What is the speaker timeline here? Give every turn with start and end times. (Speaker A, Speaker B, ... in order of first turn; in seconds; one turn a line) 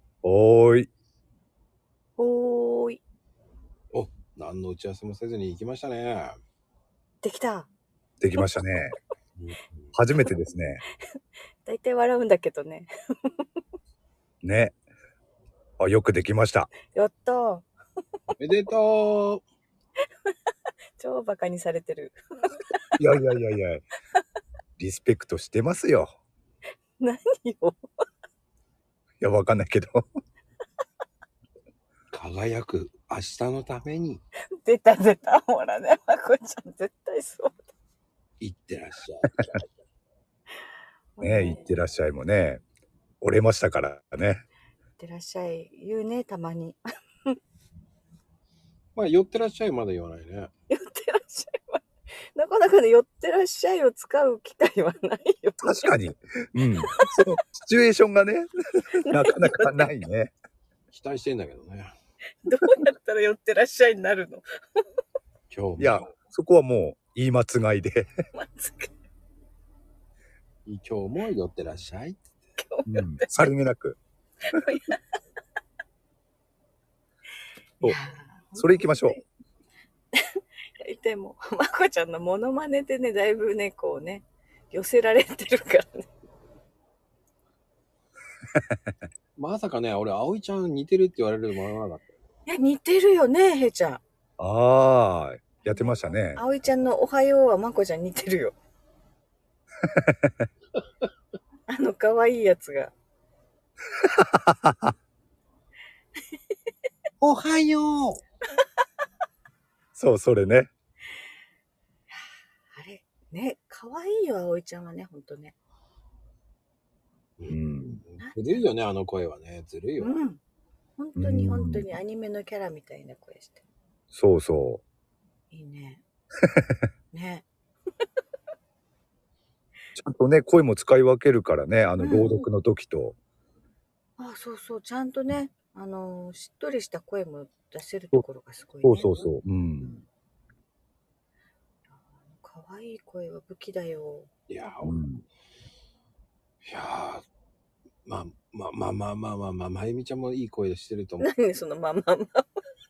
Speaker A: 0.2-0.9
Speaker B: 2.2-3.0
Speaker C: 3.9-6.4
Speaker B: 7.2-7.7
Speaker A: 8.2-9.0
Speaker C: 9.4-9.7
Speaker A: 9.9-10.8
Speaker B: 11.7-13.5
Speaker A: 14.4-14.8
Speaker A: 15.8-16.8
Speaker B: 16.9-17.7
Speaker C: 18.4-19.4
Speaker B: 21.0-23.0
Speaker A: 23.0-23.9
Speaker A: 24.8-26.1
Speaker B: 27.0-27.8
Speaker A: 29.2-30.0
Speaker C: 32.1-34.2
Speaker B: 34.6-37.6
Speaker C: 38.4-39.7
Speaker B: 41.2-41.7
Speaker A: 41.2-42.6
Speaker A: 43.2-44.4
Speaker B: 45.0-47.4
Speaker C: 49.0-50.5
Speaker B: 50.7-55.9
Speaker A: 55.6-60.3
Speaker B: 56.8-57.2
Speaker B: 59.0-60.0
Speaker C: 60.9-61.9
Speaker B: 62.5-64.8
Speaker C: 65.5-66.1
Speaker A: 65.8-68.1
Speaker B: 68.3-68.9
Speaker C: 70.7-72.3
Speaker B: 72.6-73.5
Speaker A: 72.9-74.0
Speaker B: 74.5-75.0
Speaker B: 77.8-79.2
Speaker A: 78.6-79.2
Speaker B: 80.1-86.1
Speaker C: 89.4-92.1
Speaker B: 92.5-94.0
Speaker A: 94.4-96.4
Speaker B: 95.6-98.5
Speaker A: 99.9-100.5
Speaker B: 101.7-102.9
Speaker A: 104.0-104.9
Speaker C: 107.2-108.2
Speaker A: 110.0-110.7
Speaker B: 112.1-115.6
Speaker C: 117.4-120.2
Speaker A: 117.5-118.0
Speaker B: 118.2-118.6
Speaker B: 120.0-120.4
Speaker B: 121.0-123.6
Speaker A: 121.2-121.9
Speaker A: 124.1-124.8
Speaker B: 125.5-126.0
Speaker B: 127.1-127.5
Speaker A: 130.0-133.2
Speaker B: 132.0-132.4
Speaker B: 134.2-139.1
Speaker A: 138.8-140.0
Speaker C: 139.0-139.2
Speaker B: 142.0-144.3
Speaker C: 144.5-145.0
Speaker A: 144.8-145.2
Speaker C: 146.6-147.2
Speaker C: 148.1-151.3
Speaker B: 151.2-152.6